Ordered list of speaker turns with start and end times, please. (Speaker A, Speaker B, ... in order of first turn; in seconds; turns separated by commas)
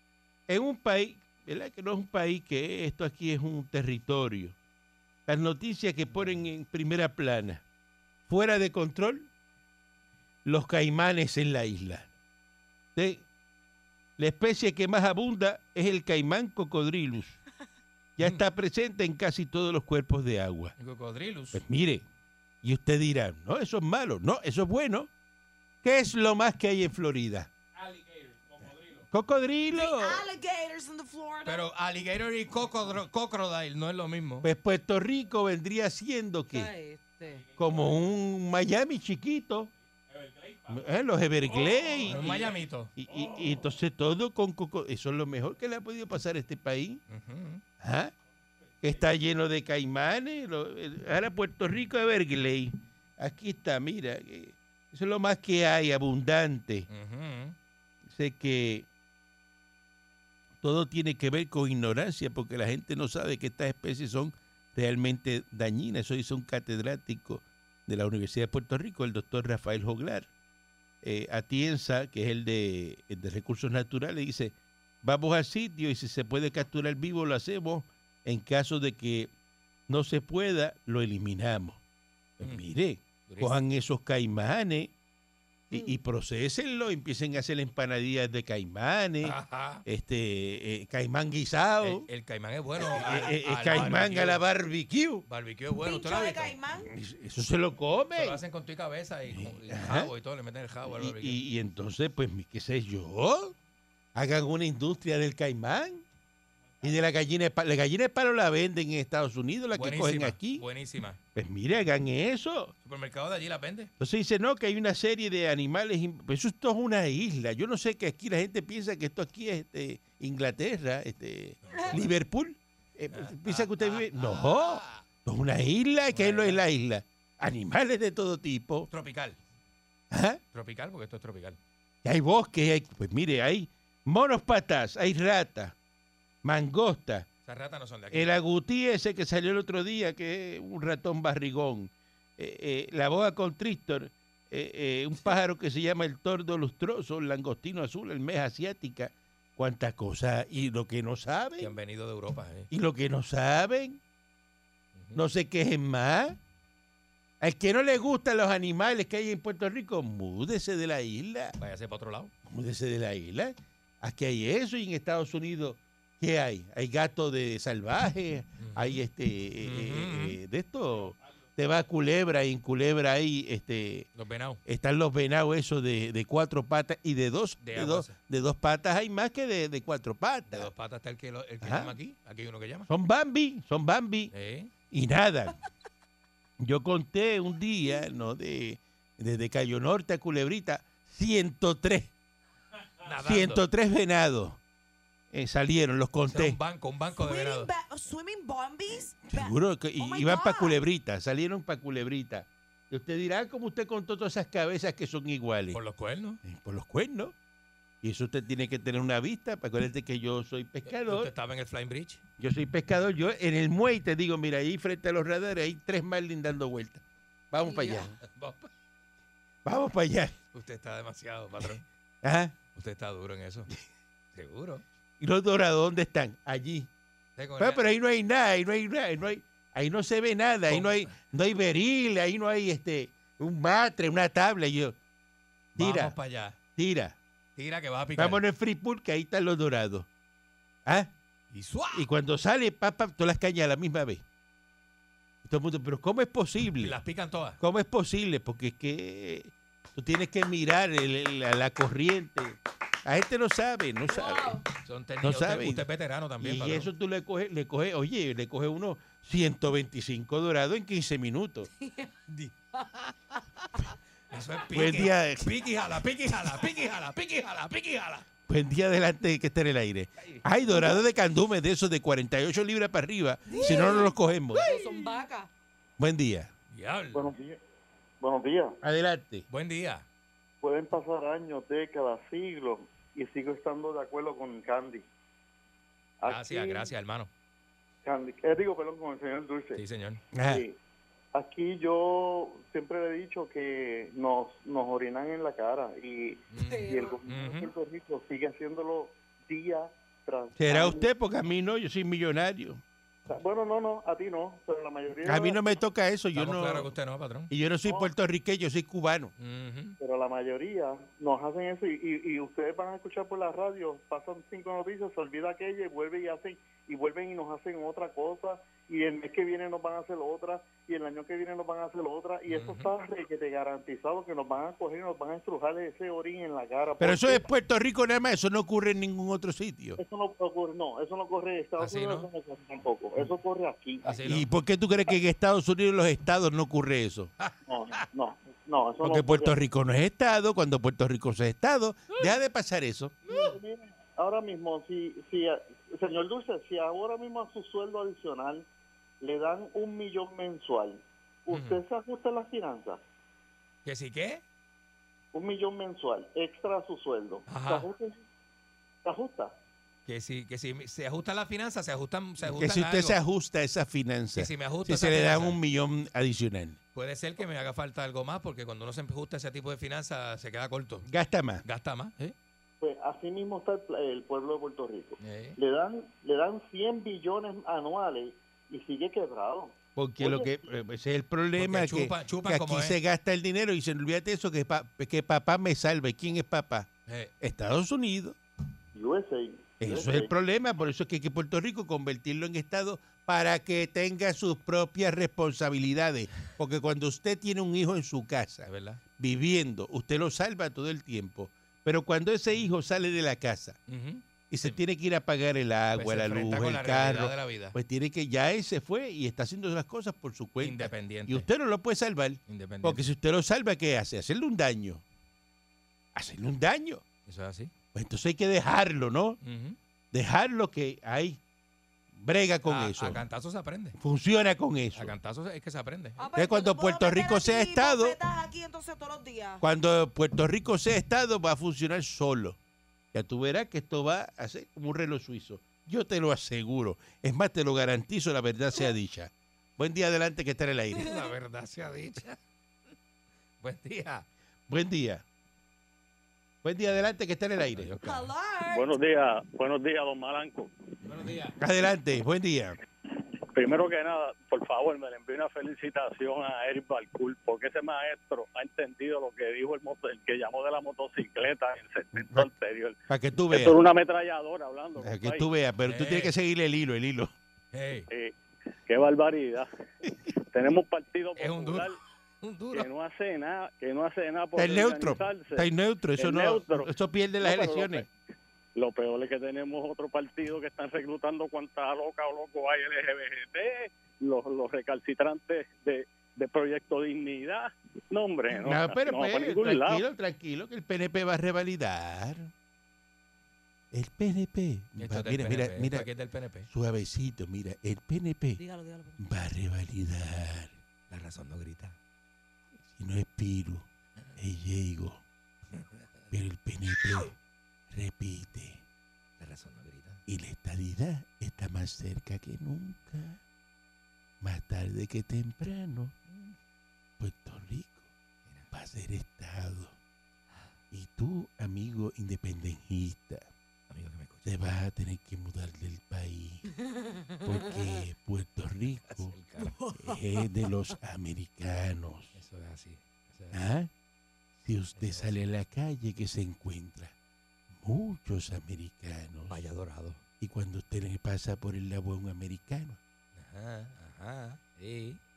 Speaker A: 0.5-4.5, Speaker A: 5.3-7.6, Speaker A: 8.3-9.3, Speaker A: 10.4-12.1, Speaker A: 12.9-13.2, Speaker A: 14.2-17.4, Speaker A: 18.2-20.7, Speaker B: 20.8-21.6, Speaker A: 21.5-22.1, Speaker A: 22.6-25.1, Speaker A: 25.8-27.5, Speaker A: 29.1-30.3, Speaker C: 29.7-31.6, Speaker B: 31.4-34.5, Speaker A: 34.4-36.7, Speaker C: 36.5-37.4, Speaker A: 37.6-39.7, Speaker A: 40.6-47.0, Speaker B: 42.0-42.9, Speaker B: 47.1-47.6, Speaker A: 47.8-48.1, Speaker A: 48.8-56.9, Speaker B: 56.9-57.5, Speaker A: 58.1-58.9, Speaker A: 60.6-70.3, Speaker A: 71.0-79.3, Speaker A: 79.9-81.8, Speaker A: 82.4-84.9, Speaker B: 83.2-83.5, Speaker A: 85.7-92.0, Speaker B: 89.2-89.8, Speaker B: 91.8-94.4, Speaker A: 92.8-95.2, Speaker B: 95.3-96.6, Speaker C: 95.8-96.9, Speaker A: 96.7-98.4, Speaker B: 98.1-101.4, Speaker A: 99.3-100.1, Speaker A: 100.8-103.5, Speaker A: 104.1-106.0, Speaker A: 106.8-110.7, Speaker B: 109.7-111.2, Speaker A: 111.3-112.7, Speaker B: 112.8-113.9, Speaker A: 114.0-128.9, Speaker B: 121.7-122.1, Speaker B: 123.1-125.0, Speaker B: 126.1-126.6, Speaker B: 128.9-129.4, Speaker A: 130.1-130.4, Speaker B: 130.5-131.6, Speaker A: 132.0-135.7, Speaker A: 136.4-137.3, Speaker B: 137.4-138.3, Speaker A: 138.1-151.7, Speaker B: 151.6-152.7, Speaker A: 152.7-154.0, Speaker B: 154.9-155.2, Speaker A: 155.1-156.4, Speaker A: 157.4-161.6, Speaker B: 161.6-162.3, Speaker A: 162.4-174.1, Speaker B: 168.6-169.0, Speaker B: 169.6-170.4, Speaker B: 174.2-174.6, Speaker A: 174.7-180.7, Speaker B: 177.6-178.1, Speaker B: 180.5-182.9, Speaker A: 181.6-181.9, Speaker A: 182.9-184.3, Speaker B: 184.3-184.7, Speaker A: 184.9-185.6, Speaker A: 186.6-192.1, Speaker B: 193.0-193.6, Speaker A: 193.2-194.6, Speaker A: 195.3-196.6, Speaker B: 196.3-197.7, Speaker C: 197.1-200.8, Speaker A: 199.2-205.8, Speaker B: 205.7-206.4, Speaker A: 206.4-207.3, Speaker A: 208.0-211.3, Speaker B: 210.9-212.2, Speaker A: 212.4-218.2, Speaker C: 217.7-218.1, Speaker B: 218.2-218.7, Speaker A: 219.6-220.4, Speaker B: 220.5-221.8, Speaker A: 222.2-222.5, Speaker B: 222.7-223.7, Speaker B: 224.3-224.8, Speaker A: 225.2-226.9, Speaker B: 227.4-227.8, Speaker A: 227.6-234.9, Speaker B: 230.7-231.2, Speaker A: 235.7-236.1, Speaker B: 235.8-236.6, Speaker A: 236.8-237.2, Speaker B: 237.6-238.4, Speaker A: 238.2-240.1, Speaker A: 240.8-241.1, Speaker B: 241.5-242.1, Speaker A: 241.9-244.2, Speaker A: 245.4-247.0, Speaker B: 246.8-247.6, Speaker A: 247.6-254.6, Speaker C: 254.1-254.6, Speaker B: 254.8-256.9, Speaker A: 255.2-255.8, Speaker A: 256.4-261.7, Speaker C: 261.8-262.1, Speaker B: 264.3-268.2, Speaker A: 264.7-265.5, Speaker A: 268.5-274.6, Speaker C: 273.5-275.5, Speaker B: 273.6-274.0, Speaker B: 274.5-275.2, Speaker A: 276.0-276.5, Speaker B: 276.7-277.3, Speaker D: 277.1-277.6, Speaker D: 278.2-278.8, Speaker A: 278.8-279.4, Speaker B: 279.5-280.0, Speaker D: 280.6-285.1, Speaker D: 286.2-286.9, Speaker B: 286.2-287.3, Speaker D: 288.0-289.8, Speaker B: 289.7-290.2, Speaker A: 290.3-290.6, Speaker D: 290.4-290.8, Speaker D: 291.3-301.1, Speaker B: 296.5-297.7, Speaker C: 296.6-297.1, Speaker A: 300.6-302.8, Speaker D: 303.3-305.6, Speaker A: 305.2-306.9, Speaker B: 306.3-307.5, Speaker A: 307.5-309.3, Speaker B: 309.4-309.9, Speaker D: 310.0-327.5, Speaker B: 322.5-322.9, Speaker A: 327.0-330.0, Speaker D: 330.0-334.2, Speaker B: 331.8-332.3, Speaker B: 334.0-334.5, Speaker A: 334.2-337.3, Speaker B: 337.4-338.0, Speaker D: 337.6-339.6, Speaker A: 339.0-343.1, Speaker B: 343.3-343.6, Speaker D: 343.3-348.6, Speaker D: 349.2-353.0, Speaker B: 351.5-351.8, Speaker B: 353.8-354.4, Speaker D: 355.3-358.2, Speaker B: 357.5-357.9, Speaker D: 359.0-359.5, Speaker B: 360.1-363.2, Speaker A: 362.4-366.8, Speaker B: 364.3-365.6, Speaker B: 366.9-371.1, Speaker A: 371.1-371.6, Speaker B: 371.6-372.3, Speaker D: 372.8-380.5, Speaker B: 375.2-375.6, Speaker A: 379.9-386.9, Speaker B: 381.6-383.0, Speaker A: 387.4-388.4, Speaker D: 388.9-390.3, Speaker A: 389.8-403.8, Speaker B: 398.6-399.0, Speaker B: 403.9-404.8, Speaker A: 404.5-415.0, Speaker B: 405.9-407.8, Speaker B: 410.6-411.5, Speaker B: 412.5-413.0, Speaker A: 416.1-417.0, Speaker B: 417.2-417.7, Speaker A: 417.9-419.4, Speaker B: 419.4-419.8, Speaker A: 420.1-421.4, Speaker A: 422.1-423.2, Speaker B: 422.6-423.9, Speaker A: 424.0-425.1, Speaker B: 424.9-426.2, Speaker C: 426.2-429.6, Speaker A: 426.3-428.2, Speaker A: 429.6-432.6, Speaker A: 433.1-441.2, Speaker B: 441.0-442.4, Speaker B: 443.6-444.2, Speaker A: 444.7-445.2, Speaker A: 446.6-447.9, Speaker B: 447.6-448.3, Speaker C: 448.0-448.9, Speaker E: 448.7-450.7, Speaker B: 451.0-451.6, Speaker A: 451.6-452.8, Speaker E: 453.5-463.0, Speaker A: 462.2-462.5, Speaker A: 463.1-463.8, Speaker E: 463.5-465.5, Speaker A: 465.0-467.3, Speaker B: 465.9-466.3, Speaker B: 467.7-468.1, Speaker E: 468.1-468.4, Speaker E: 468.9-469.7, Speaker E: 470.5-472.0, Speaker B: 471.4-472.9, Speaker E: 472.7-478.1, Speaker A: 474.5-478.1, Speaker E: 478.8-490.0, Speaker A: 488.5-492.5, Speaker A: 493.9-496.1, Speaker B: 495.0-496.7, Speaker A: 496.7-498.6, Speaker C: 498.6-499.2, Speaker A: 499.2-500.7, Speaker B: 501.1-501.9, Speaker A: 502.9-503.9, Speaker A: 504.4-505.2, Speaker B: 505.7-506.0, Speaker A: 506.3-507.3, Speaker A: 507.9-508.8, Speaker B: 509.4-510.2, Speaker A: 510.3-513.4, Speaker A: 514.4-516.1, Speaker B: 516.3-516.5, Speaker A: 517.2-518.0, Speaker A: 518.7-519.9, Speaker A: 520.9-523.5, Speaker B: 523.9-524.5, Speaker A: 524.4-526.6, Speaker A: 527.4-529.4, Speaker B: 529.1-529.8, Speaker C: 529.6-530.2, Speaker A: 529.9-532.3, Speaker B: 532.3-533.6, Speaker A: 533.5-533.9, Speaker A: 534.6-537.1, Speaker B: 535.0-535.4, Speaker A: 537.7-539.6, Speaker B: 539.5-540.2, Speaker A: 540.4-543.0, Speaker B: 543.4-545.2